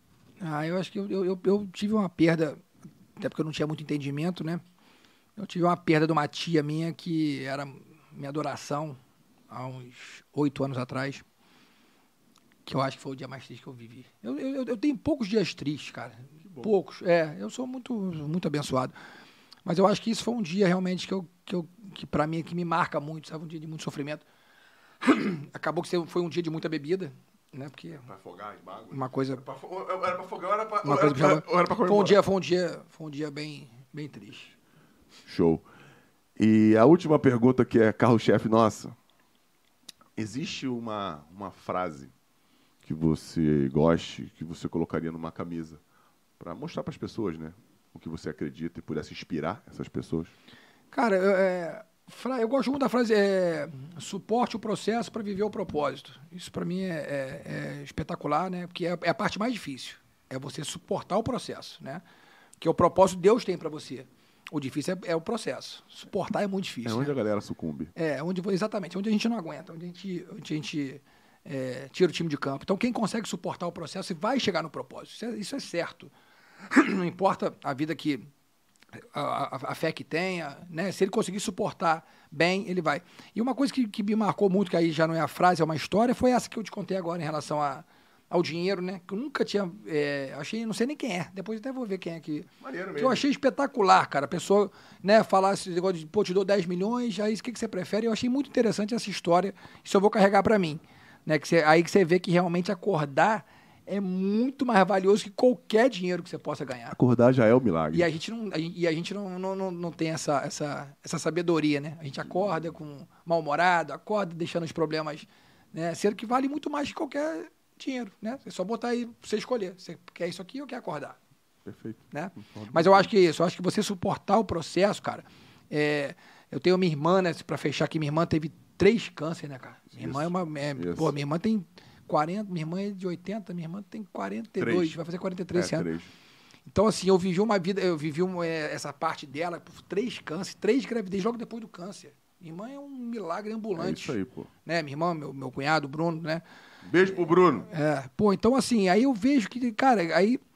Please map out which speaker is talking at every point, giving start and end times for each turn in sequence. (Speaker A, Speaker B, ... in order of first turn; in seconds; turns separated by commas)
Speaker A: 0.4-2.6, Speaker A: 3.2-4.6, Speaker A: 5.4-9.0, Speaker A: 9.5-11.2, Speaker A: 12.7-18.9, Speaker B: 16.4-16.7, Speaker A: 19.6-24.2, Speaker A: 25.0-28.1, Speaker B: 28.0-32.2, Speaker A: 28.9-29.4, Speaker A: 30.8-34.5, Speaker B: 35.2-35.6, Speaker B: 36.4-39.0, Speaker B: 40.2-42.1, Speaker B: 42.8-45.8, Speaker B: 46.4-50.3, Speaker A: 50.9-62.0, Speaker A: 62.6-67.1, Speaker B: 66.8-67.9, Speaker A: 67.9-76.1, Speaker A: 76.7-78.3, Speaker A: 79.0-107.0, Speaker B: 92.6-93.2, Speaker B: 106.9-108.1, Speaker A: 107.9-121.2, Speaker B: 121.6-123.1, Speaker A: 122.1-135.9, Speaker B: 129.9-131.1, Speaker B: 134.6-135.0, Speaker B: 135.5-136.1, Speaker A: 136.7-146.4, Speaker B: 143.8-144.5, Speaker B: 146.8-147.7, Speaker A: 147.7-150.4